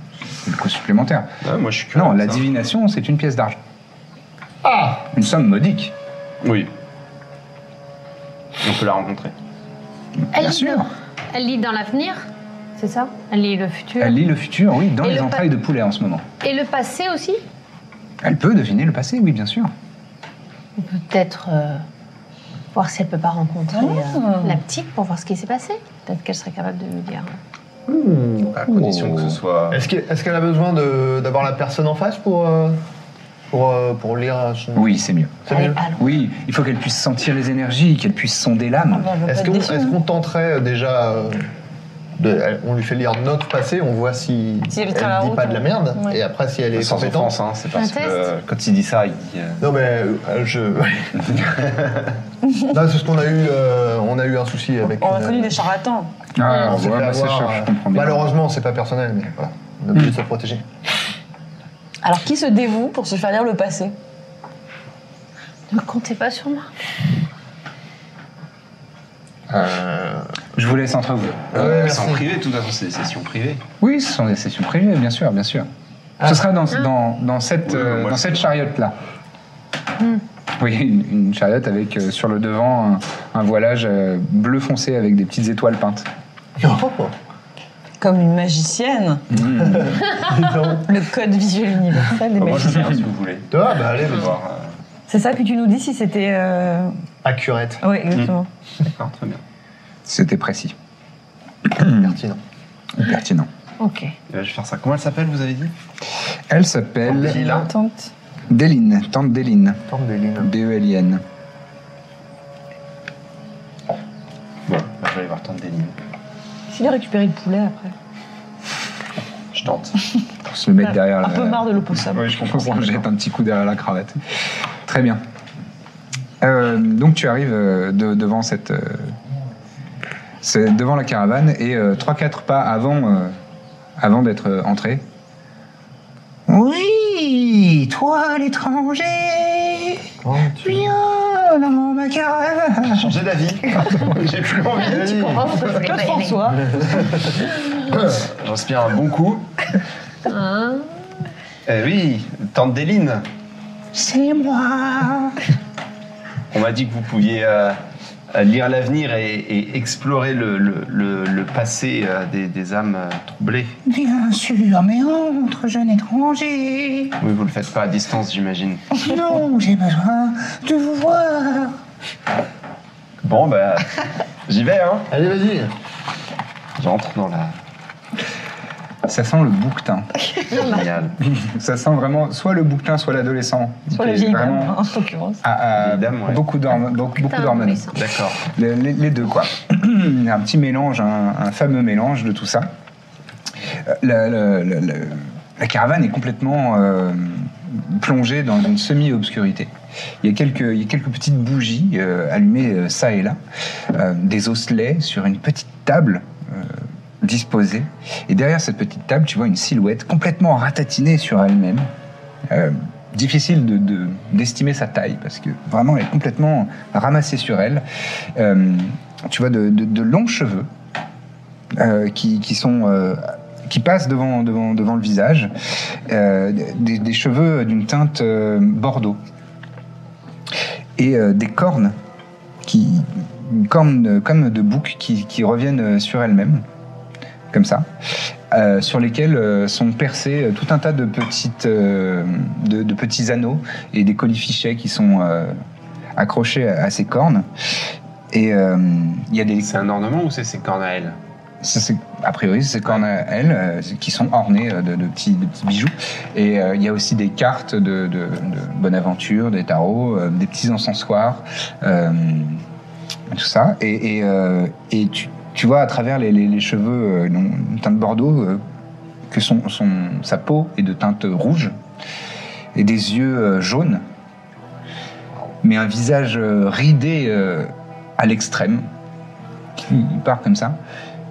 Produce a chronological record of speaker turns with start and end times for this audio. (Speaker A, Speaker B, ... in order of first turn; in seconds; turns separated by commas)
Speaker A: 0.4-1.3, Speaker B: 1.4-2.6, Speaker A: 1.9-3.6, Speaker C: 4.6-5.1, Speaker A: 5.1-5.9, Speaker B: 6.4-6.7, Speaker B: 8.6-9.3, Speaker A: 10.3-10.9, Speaker D: 10.3-12.2, Speaker D: 12.8-14.2, Speaker A: 14.0-16.2, Speaker D: 15.0-15.5, Speaker D: 16.4-17.4, Speaker A: 18.2-19.7, Speaker D: 20.8-21.8, Speaker D: 22.7-27.4, Speaker E: 23.7-24.6, Speaker B: 27.9-29.9, Speaker A: 28.7-29.4, Speaker C: 29.7-32.8, Speaker C: 33.5-35.8, Speaker A: 34.8-35.4, Speaker D: 35.5-36.1, Speaker A: 36.0-39.1, Speaker E: 38.9-40.0, Speaker C: 39.3-41.5, Speaker C: 42.2-47.4, Speaker E: 44.7-46.2, Speaker B: 46.7-49.7, Speaker D: 47.8-48.3, Speaker C: 49.6-51.6, Speaker C: 52.7-55.6, Speaker E: 55.0-56.1, Speaker A: 56.4-58.3, Speaker C: 56.5-60.6, Speaker E: 62.0-63.9, Speaker D: 65.7-66.7, Speaker C: 69.5-70.3, Speaker A: 70.6-71.8, Speaker C: 71.5-72.2, Speaker B: 71.5-73.6, Speaker A: 73.8-75.7, Speaker A: 76.2-79.0, Speaker B: 77.7-78.5, Speaker A: 80.6-86.1, Speaker C: 86.6-87.1, Speaker E: 88.0-89.3, Speaker A: 89.3-90.1, Speaker C: 89.6-90.9, Speaker E: 90.9-92.8, Speaker B: 92.3-94.8, Speaker C: 93.5-94.3, Speaker E: 95.1-96.9, Speaker C: 97.2-97.8, Speaker E: 97.8-98.5, Speaker B: 98.9-99.4, Speaker A: 100.1-100.8, Speaker A: 101.7-102.1, Speaker C: 101.8-102.4, Speaker A: 103.0-103.5, Speaker D: 103.8-104.2, Speaker B: 104.3-105.7, Speaker A: 106.5-107.4, Speaker C: 107.1-107.7, Speaker B: 107.1-107.7, Speaker E: 107.3-108.1, Speaker A: 108.5-109.8, Speaker C: 109.9-110.5, Speaker A: 110.4-111.2, Speaker B: 114.7-116.0, Speaker E: 116.7-117.9, Speaker B: 119.5-120.0, Speaker A: 120.5-124.2, Speaker E: 120.8-123.0, Speaker A: 124.8-125.2, Speaker A: 126.4-129.2, Speaker A: 130.4-133.3, Speaker A: 134.0-135.0, Speaker A: 136.5-140.1, Speaker C: 140.2-140.9, Speaker A: 140.6-143.1, Speaker B: 142.9-145.4, Speaker C: 144.7-145.7, Speaker D: 144.8-146.6, Speaker E: 145.4-146.8, Speaker C: 146.8-147.3, Speaker B: 147.9-149.5, Speaker D: 150.3-150.9, Speaker B: 151.7-153.3, Speaker A: 153.9-155.4, Speaker B: 156.5-157.8, Speaker B: 158.3-163.8, Speaker A: 163.8-167.2, Speaker B: 167.2-169.0, Speaker A: 169.0-171.8, Speaker B: 173.2-175.1, Speaker C: 175.1-175.7, Speaker B: 176.8-177.6, Speaker A: 179.1-180.1, Speaker B: 180.5-181.2, Speaker D: 180.5-180.9, Speaker A: 181.2-184.8, Speaker E: 183.9-185.4, Speaker A: 185.4-192.7, Speaker B: 185.7-186.4, Speaker D: 187.3-188.0, Speaker B: 187.9-188.4, Speaker A: 193.9-199.7, Speaker A: 200.2-203.4, Speaker A: 203.9-211.9, Speaker A: 212.5-217.8, Speaker A: 218.3-220.7, Speaker A: 221.7-225.5, Speaker A: 226.1-229.2, Speaker A: 231.0-232.0, Speaker A: 232.6-236.6, Speaker A: 237.5-237.9, Speaker A: 238.5-245.6, Speaker A: 246.2-247.5, Speaker A: 248.3-249.7, Speaker B: 249.6-251.2, Speaker A: 251.6-262.6, Speaker A: 263.3-268.6, Speaker A: 269.3-271.8, Speaker A: 272.8-274.1, Speaker A: 275.6-278.9, Speaker A: 279.8-280.8